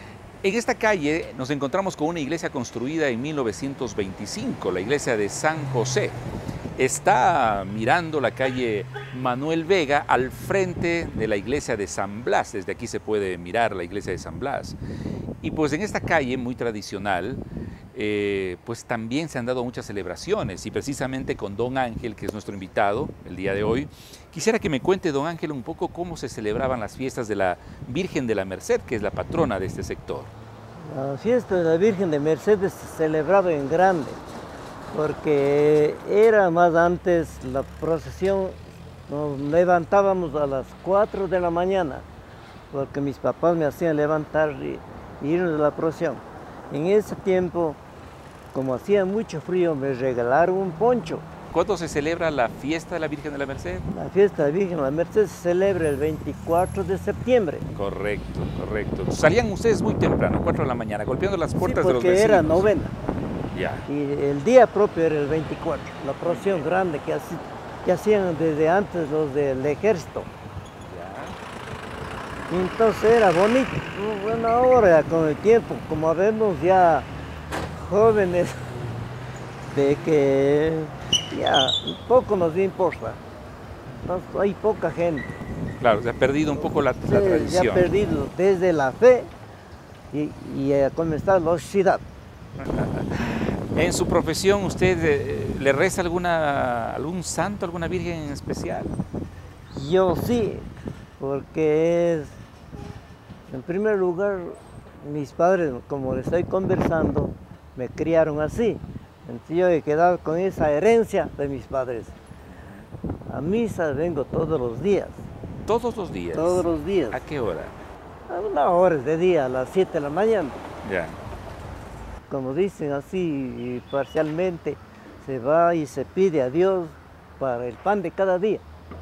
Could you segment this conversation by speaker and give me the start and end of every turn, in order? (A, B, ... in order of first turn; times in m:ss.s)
0:00.4-0:06.2 A
0:06.8-0:14.8 A
0:15.4-0:17.4 A
0:17.9-0:30.3 A
0:30.9-0:34.2 B
0:34.9-0:38.6 B
0:39.1-0:42.0 B
0:42.7-0:47.8 B
0:48.5-0:51.2 B
0:51.5-0:53.9 A
0:53.9-0:57.7 B
0:57.7-1:02.7 A
1:01.6-1:03.0 B
1:03.5-1:03.9 A
1:03.9-1:10.3 B
1:06.2-1:06.7 A
1:10.8-1:11.4 A
1:12.5-1:17.1 B
1:17.7-1:18.6 B
1:19.7-1:23.2 B
1:24.0-1:25.3 B
1:25.8-1:27.9 A
1:26.6-1:29.3 B
1:30.1-1:32.0 B
1:32.6-1:39.0 A
1:39.7-1:40.7 B
1:41.2-1:42.4 B
1:43.5-1:52.2 B
1:53.3-1:55.2 B
1:55.6-1:57.8 A
1:56.3-1:57.2 B
1:58.3-2:00.6 B
2:00.8-2:01.2 A
2:02.3-2:08.6 B